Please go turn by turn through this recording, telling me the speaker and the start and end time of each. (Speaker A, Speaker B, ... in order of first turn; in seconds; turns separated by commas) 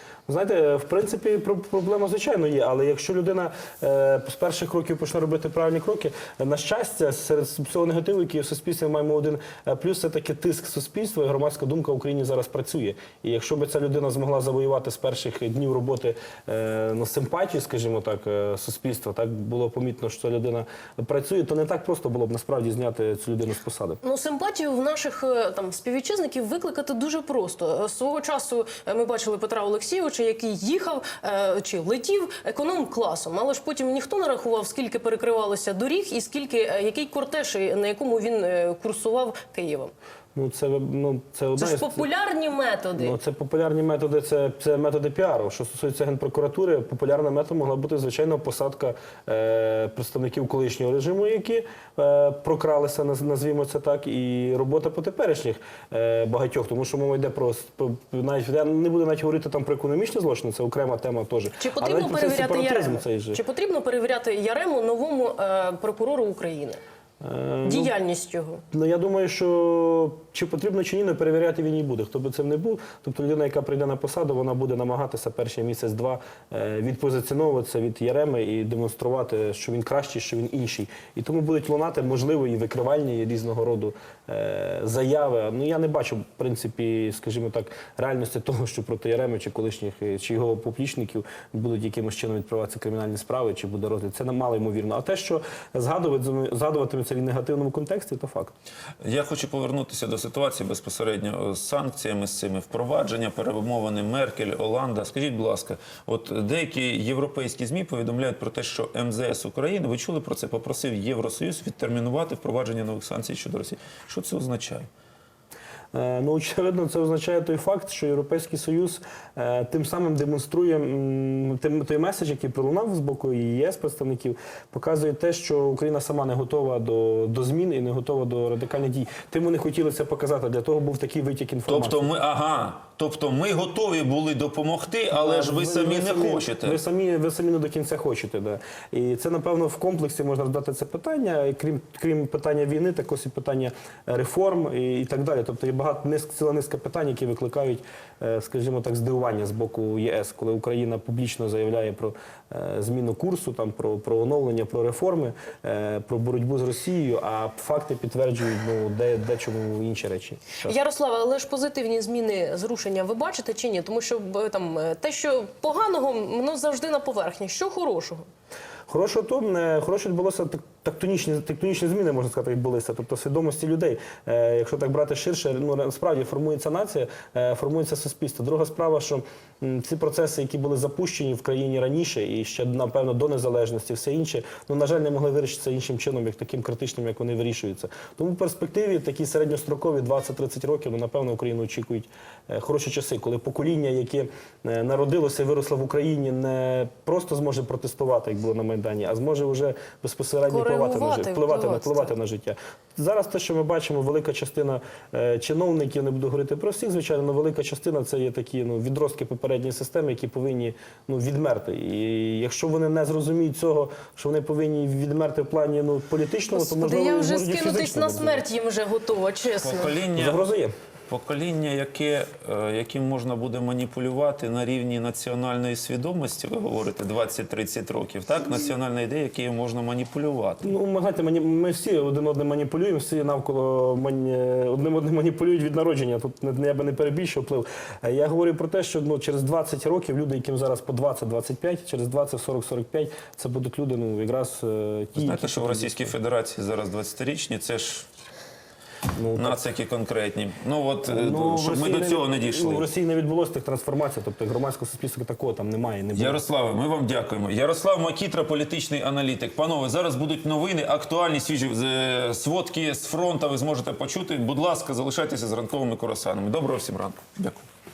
Speaker A: 0.3-24.0, Speaker B: 24.0-39.9, Speaker A: 40.3-42.1, Speaker B: 41.6-43.1, Speaker A: 43.0-63.4, Speaker B: 61.6-66.8, Speaker A: 67.2-67.9, Speaker B: 67.6-68.6, Speaker A: 68.7-98.5, Speaker C: 99.0-114.9, Speaker A: 115.9-132.1, Speaker C: 131.7-136.8, Speaker A: 135.1-160.7, Speaker B: 160.6-168.2, Speaker A: 168.9-218.4, Speaker B: 200.5-202.1, Speaker B: 216.5-220.0, Speaker C: 219.6-220.4, Speaker A: 220.1-220.7, Speaker C: 221.1-230.7, Speaker A: 230.6-246.1, Speaker C: 245.2-248.1, Speaker A: 249.1-249.7, Speaker C: 249.3-252.9, Speaker A: 251.0-256.4, Speaker C: 256.1-267.6